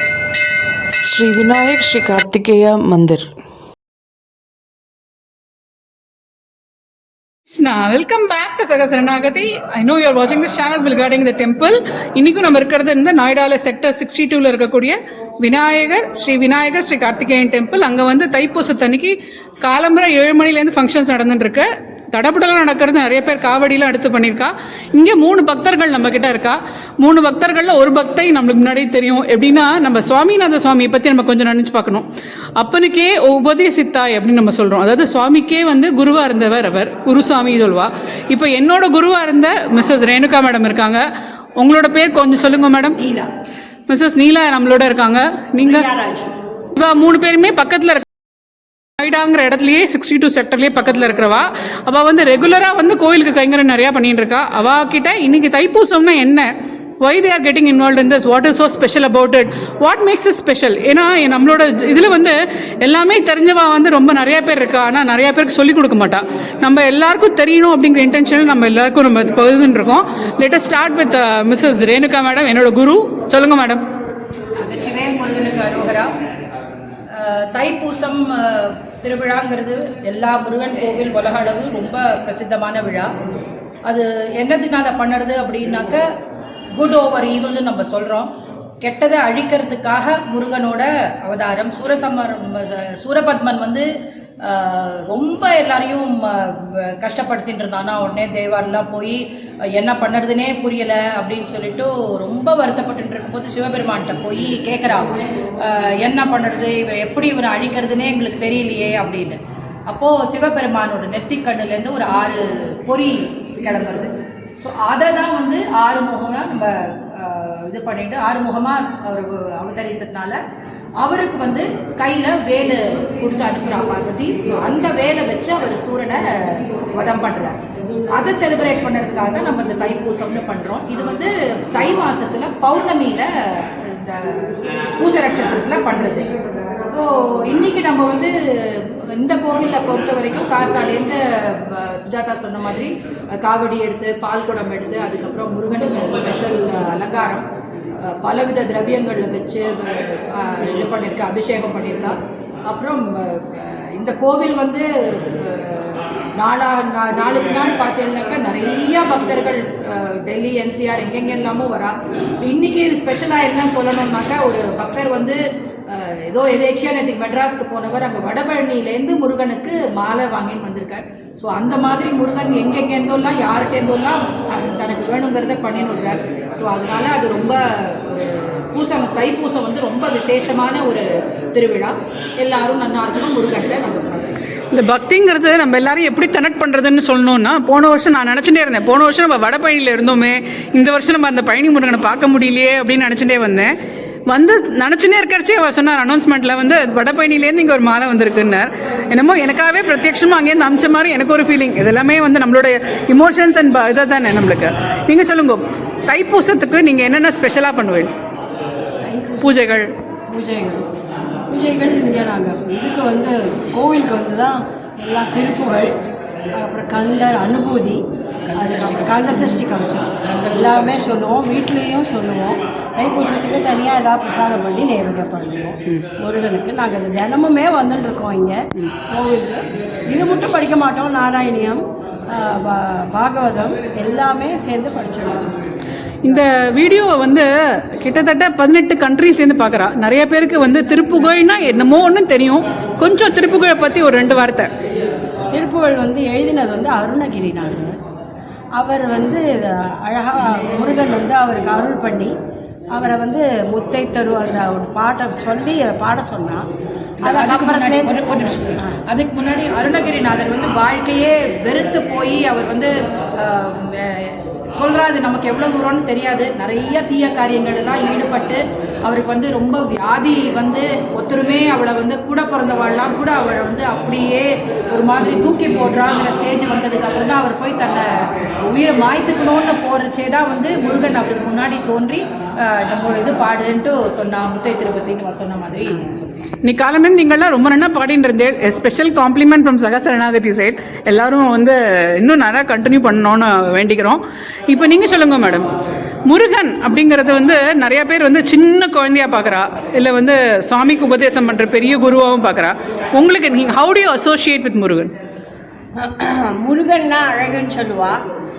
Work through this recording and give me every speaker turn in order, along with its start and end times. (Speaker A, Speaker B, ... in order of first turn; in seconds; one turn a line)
Speaker A: 1.1-3.3
Speaker B: 7.5-41.1
Speaker B: 41.6-43.1
Speaker B: 43.9-45.8
Speaker C: 45.6-46.3
Speaker B: 46.8-48.0
Speaker B: 49.0-73.8
Speaker D: 74.6-76.1
Speaker D: 77.1-83.1
Speaker D: 83.8-86.0
Speaker D: 86.8-88.3
Speaker D: 88.8-93.9
Speaker D: 94.5-99.2
Speaker D: 99.8-120.4
Speaker D: 121.0-126.2
Speaker D: 126.9-127.5
Speaker D: 128.2-133.3
Speaker D: 133.8-136.3
Speaker D: 136.8-138.3
Speaker D: 139.2-141.2
Speaker D: 141.7-147.5
Speaker D: 148.1-152.2
Speaker D: 152.7-165.4
Speaker D: 165.9-184.5
Speaker B: 184.7-193.8
Speaker B: 194.3-208.2
Speaker E: 209.1-209.8
Speaker B: 209.4-209.9
Speaker E: 210.3-210.9
Speaker E: 211.5-215.9
Speaker E: 216.6-235.6
Speaker D: 218.5-219.7
Speaker D: 220.2-221.2
Speaker B: 236.3-244.7
Speaker E: 245.5-247.9
Speaker E: 248.8-252.3
Speaker E: 252.9-256.7
Speaker D: 257.2-262.9
Speaker E: 257.2-258.8
Speaker D: 263.4-278.1
Speaker D: 278.6-286.5
Speaker B: 286.6-295.7
Speaker B: 296.2-305.1
Speaker C: 306.0-308.2